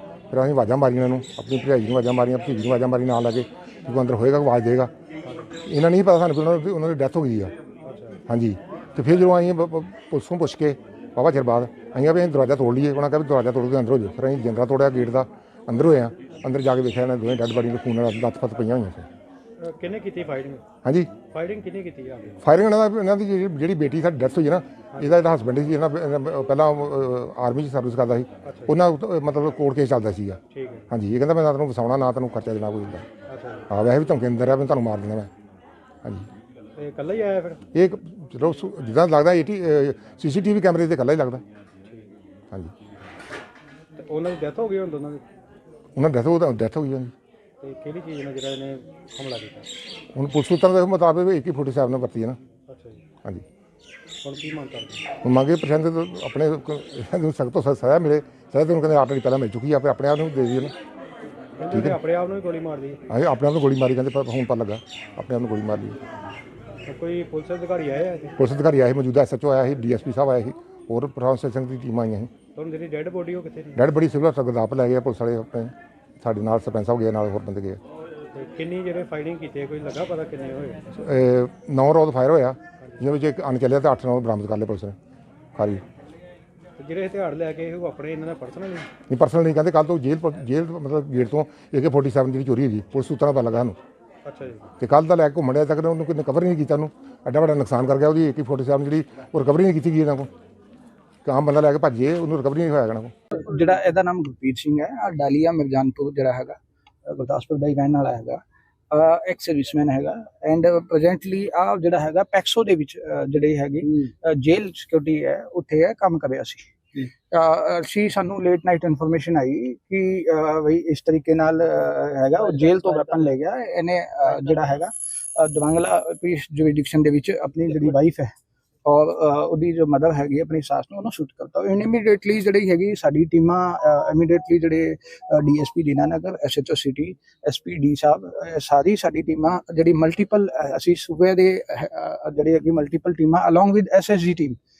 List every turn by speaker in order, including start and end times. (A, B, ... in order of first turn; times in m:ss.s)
0:00.3-0:04.9 A
0:05.2-0:05.5 B
0:05.6-0:07.5 A
0:07.8-0:08.2 B
0:08.3-0:19.1 A
0:19.6-0:20.6 B
0:20.8-0:21.1 A
0:21.3-0:22.4 B
0:22.4-0:33.1 A
0:24.9-0:25.2 B
0:28.4-0:28.8 B
0:30.5-0:30.9 B
0:33.3-0:33.6 B
0:33.7-0:35.3 A
0:36.0-0:36.3 A
0:36.8-0:37.6 B
0:37.7-0:41.4 A
0:44.0-0:45.2 B
0:46.0-0:47.1 A
0:47.6-0:49.7 B
0:50.1-0:52.4 A
0:52.7-0:53.0 B
0:54.2-0:55.0 B
0:55.2-1:00.7 A
1:01.6-1:03.0 B
1:01.7-1:02.0 A
1:03.1-1:06.0 A
1:06.9-1:08.4 B
1:08.4-1:12.3 A
1:12.5-1:13.8 B
1:13.8-1:17.8 A
1:18.3-1:20.8 B
1:20.9-1:25.0 A
1:25.6-1:25.8 A
1:26.8-1:28.9 B
1:29.1-1:33.8 A
1:34.2-1:34.7 B
1:34.8-1:40.3 A
1:41.2-1:43.1 A
1:43.3-1:56.6 C
1:57.3-2:08.3 C
2:08.8-2:24.6 C